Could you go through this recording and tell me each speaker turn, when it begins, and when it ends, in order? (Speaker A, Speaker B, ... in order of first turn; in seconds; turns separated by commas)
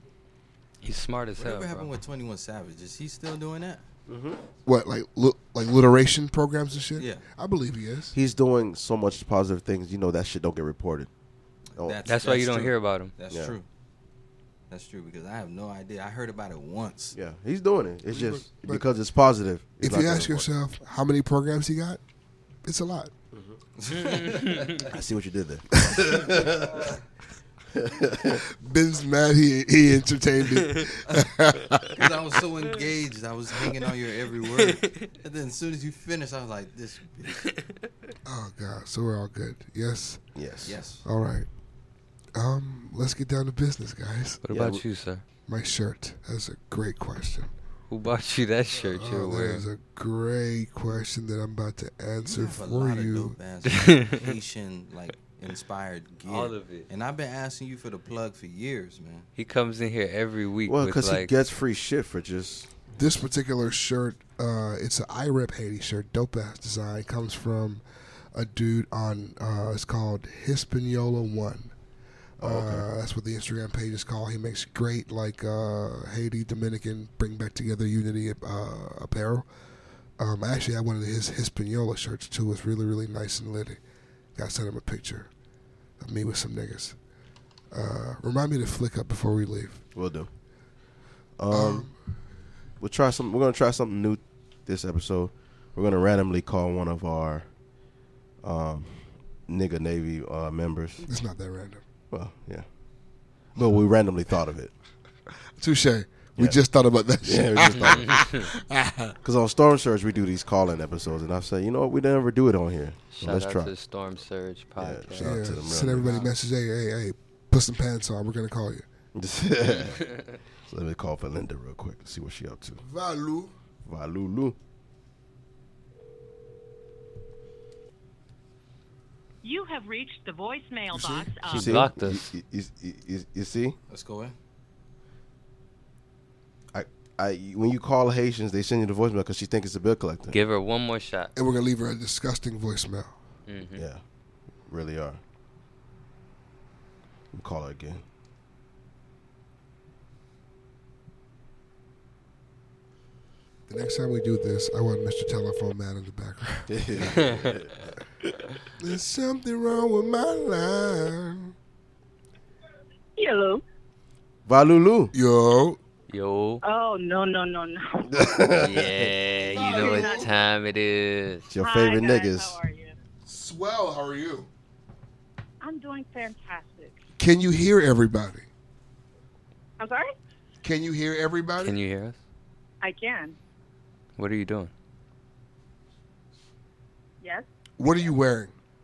Speaker A: 0.8-1.9, Speaker B: 1.4-3.8, Speaker C: 4.1-4.4, Speaker D: 4.7-8.2, Speaker B: 7.0-7.2, Speaker C: 8.1-11.1, Speaker B: 11.8-13.7, Speaker A: 12.1-13.1, Speaker C: 13.3-13.6, Speaker B: 14.7-17.1, Speaker C: 17.1-20.5, Speaker D: 18.1-18.9, Speaker D: 19.8-22.0, Speaker D: 22.6-23.1, Speaker B: 23.8-24.9, Speaker A: 24.2-24.7, Speaker C: 24.9-26.7, Speaker D: 25.9-26.3, Speaker C: 27.8-28.4, Speaker D: 28.6-32.0, Speaker B: 31.9-37.4, Speaker A: 37.5-37.8, Speaker D: 38.2-40.3, Speaker C: 40.4-40.8, Speaker B: 40.7-41.0, Speaker D: 41.0-41.5, Speaker D: 42.4-44.4, Speaker A: 44.4-45.2, Speaker C: 44.5-44.8, Speaker D: 45.5-47.5, Speaker A: 47.9-49.7, Speaker D: 48.7-53.4, Speaker B: 52.3-59.3, Speaker A: 53.7-54.3, Speaker A: 56.3-56.9, Speaker A: 59.4-61.3, Speaker C: 60.7-62.7, Speaker D: 63.0-67.8, Speaker D: 68.3-71.7, Speaker C: 72.4-72.9, Speaker D: 72.4-79.5, Speaker D: 80.2-83.8, Speaker D: 84.3-85.3, Speaker D: 86.0-87.0, Speaker D: 87.7-89.8, Speaker C: 89.9-90.3, Speaker C: 91.4-91.9, Speaker D: 91.5-91.9, Speaker C: 92.8-97.5, Speaker C: 98.4-101.1, Speaker D: 101.1-101.8, Speaker C: 102.1-102.7, Speaker C: 103.5-104.7, Speaker D: 105.6-109.1, Speaker C: 107.2-108.2, Speaker A: 107.8-108.5, Speaker C: 109.2-113.7, Speaker A: 113.1-116.3, Speaker C: 114.8-116.2, Speaker D: 115.2-118.9, Speaker C: 119.2-122.8, Speaker A: 119.7-120.4, Speaker D: 122.8-123.5, Speaker C: 123.8-124.6, Speaker E: 129.4-131.8, Speaker D: 130.9-131.3, Speaker C: 131.5-133.8, Speaker A: 131.5-132.3, Speaker B: 133.9-134.3, Speaker C: 136.7-140.4, Speaker A: 140.3-141.3, Speaker D: 141.3-143.1, Speaker A: 143.5-143.9, Speaker C: 143.8-144.0, Speaker C: 144.7-145.2, Speaker C: 147.3-148.0, Speaker D: 153.7-156.7, Speaker C: 156.7-157.8, Speaker A: 157.1-157.6, Speaker D: 158.8-161.5, Speaker E: 163.2-163.6, Speaker C: 164.5-165.1, Speaker D: 165.1-165.8, Speaker A: 166.1-166.6, Speaker E: 166.6-168.6, Speaker C: 168.1-169.1, Speaker A: 168.5-171.5, Speaker D: 169.4-170.3, Speaker E: 169.6-170.3, Speaker C: 171.5-172.6, Speaker E: 171.6-172.9, Speaker D: 173.3-174.5, Speaker E: 175.6-177.0, Speaker D: 177.2-178.5, Speaker E: 179.8-180.1, Speaker D: 180.6-181.8, Speaker A: 181.6-182.2, Speaker E: 182.8-183.4, Speaker A: 184.2-184.7, Speaker E: 187.2-187.5, Speaker D: 187.8-188.5